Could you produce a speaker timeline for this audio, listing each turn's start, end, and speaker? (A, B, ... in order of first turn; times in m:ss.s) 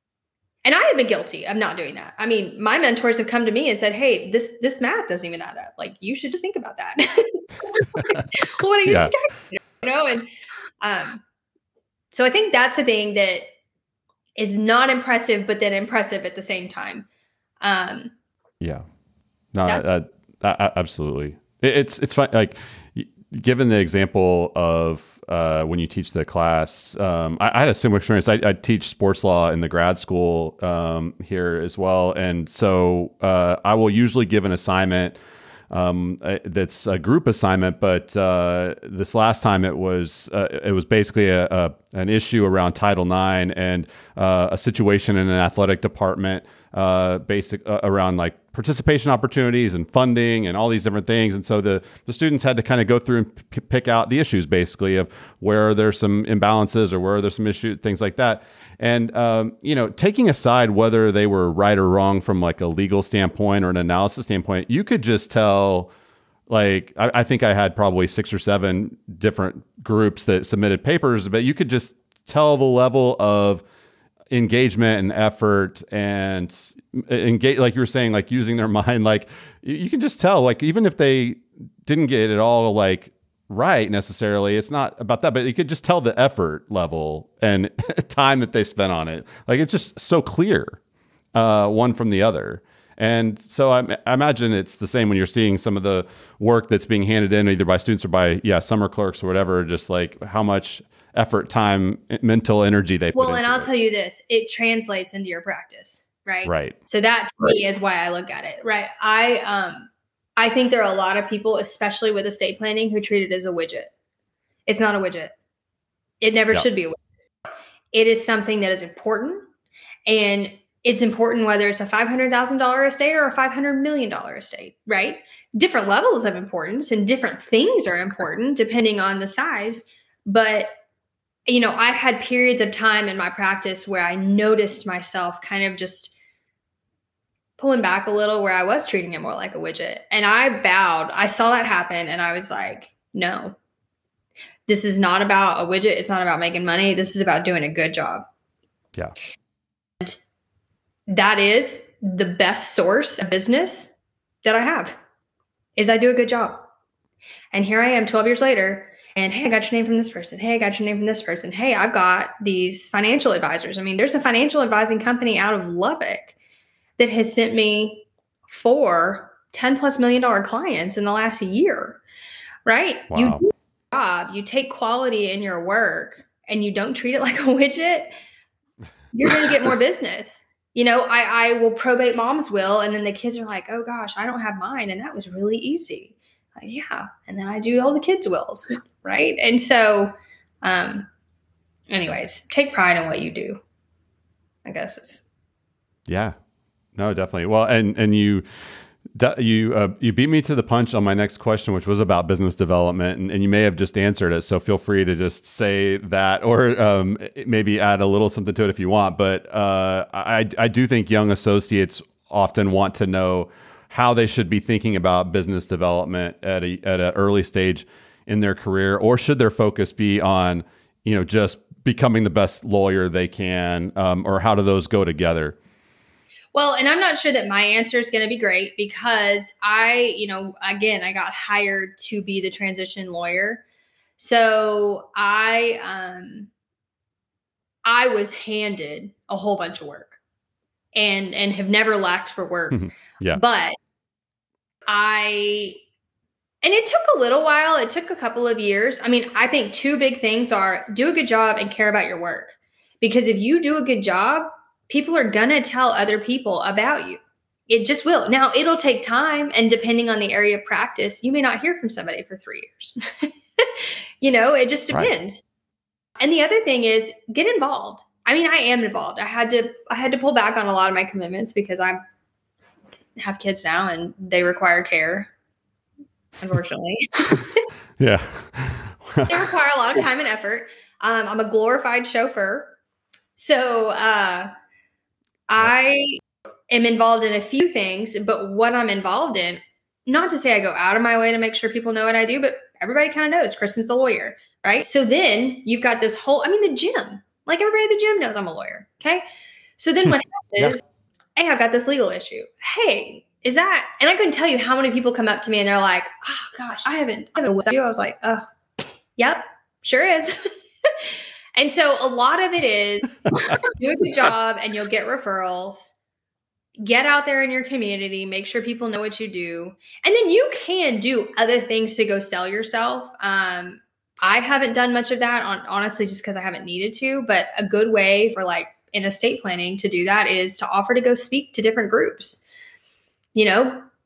0:00.6-0:10.3 A
0:08.0-0:08.2 B
0:08.9-0:09.1 B
0:10.8-0:11.2 A
0:12.1-0:13.4 A
0:14.4-0:17.1 A
0:17.6-0:18.1 A
0:19.5-0:35.2 B
0:35.7-1:05.9 B
1:06.5-1:13.6 B
1:14.3-1:30.8 B
1:31.4-1:43.7 B
1:43.2-1:53.9 A
1:46.4-1:46.8 B
1:54.7-1:55.3 A
1:56.2-1:57.0 A
1:57.9-1:59.5 A
2:00.1-2:10.7 A
2:11.5-2:16.1 A
2:17.6-2:23.6 A
2:24.7-2:28.2 A
2:31.1-2:35.0 A
2:35.8-2:36.7 A
2:37.5-2:46.4 A
2:47.0-2:52.0 A
2:52.7-2:58.1 A
2:53.1-2:53.4 B
2:59.1-3:10.1 A
3:10.6-3:11.1 A
3:11.9-3:13.6 A
3:14.6-3:15.3 A
3:16.1-3:16.4 B
3:17.0-3:45.6 B
3:46.5-3:53.6 A
3:54.2-3:56.5 A
3:57.8-4:00.2 A
4:01.0-4:02.8 A
4:02.7-4:03.4 B
4:03.3-4:03.8 A
4:04.9-4:05.8 A
4:06.6-4:25.4 A
4:26.2-4:32.0 A
4:33.2-4:35.3 A
4:36.4-4:37.6 A
4:38.0-4:39.4 B
4:39.3-4:42.8 A
4:43.4-4:44.5 A
4:45.5-4:59.2 A
4:59.8-5:00.8 A
5:01.4-5:08.4 A
5:09.2-5:15.9 A
5:16.8-5:32.4 A
5:33.4-5:33.8 A